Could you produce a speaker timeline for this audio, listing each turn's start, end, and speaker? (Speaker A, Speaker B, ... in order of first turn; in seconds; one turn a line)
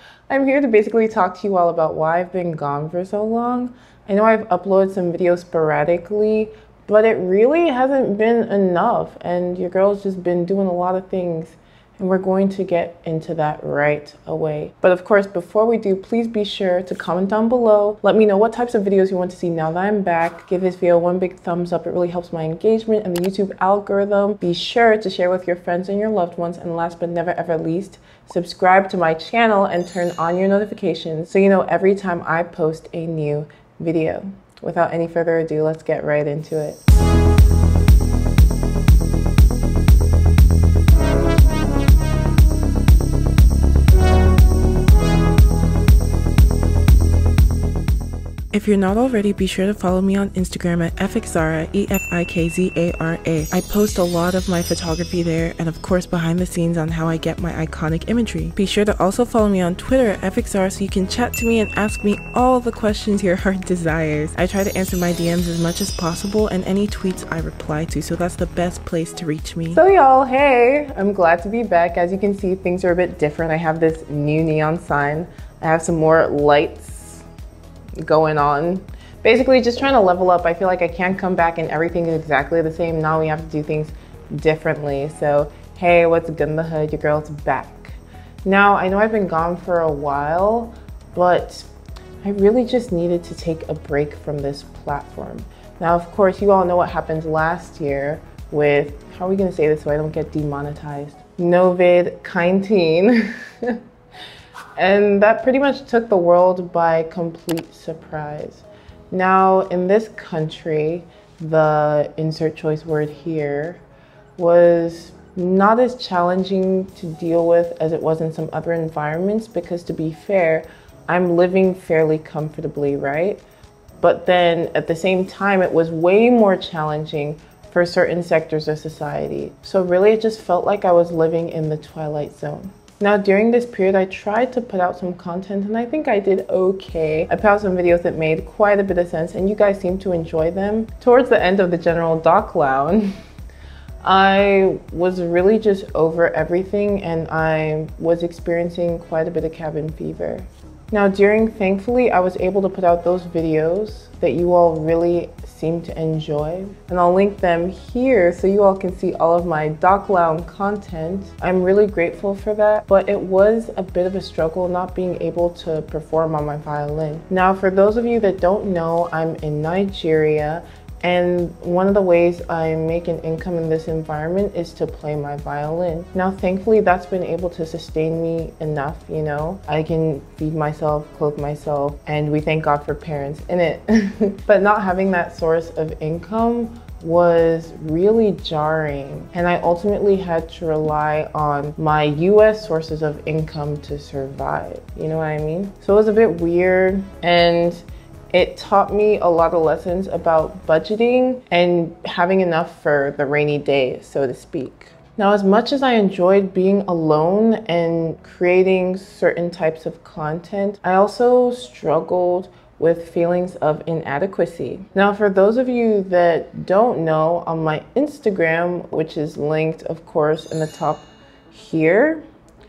Speaker A: 0.3-36.8
Speaker A: 48.5-77.2
Speaker A: 78.0-91.7
Speaker A: 92.2-103.8
Speaker A: 104.8-113.8
Speaker A: 114.4-123.4
Speaker A: 124.0-143.1
Speaker A: 144.0-222.2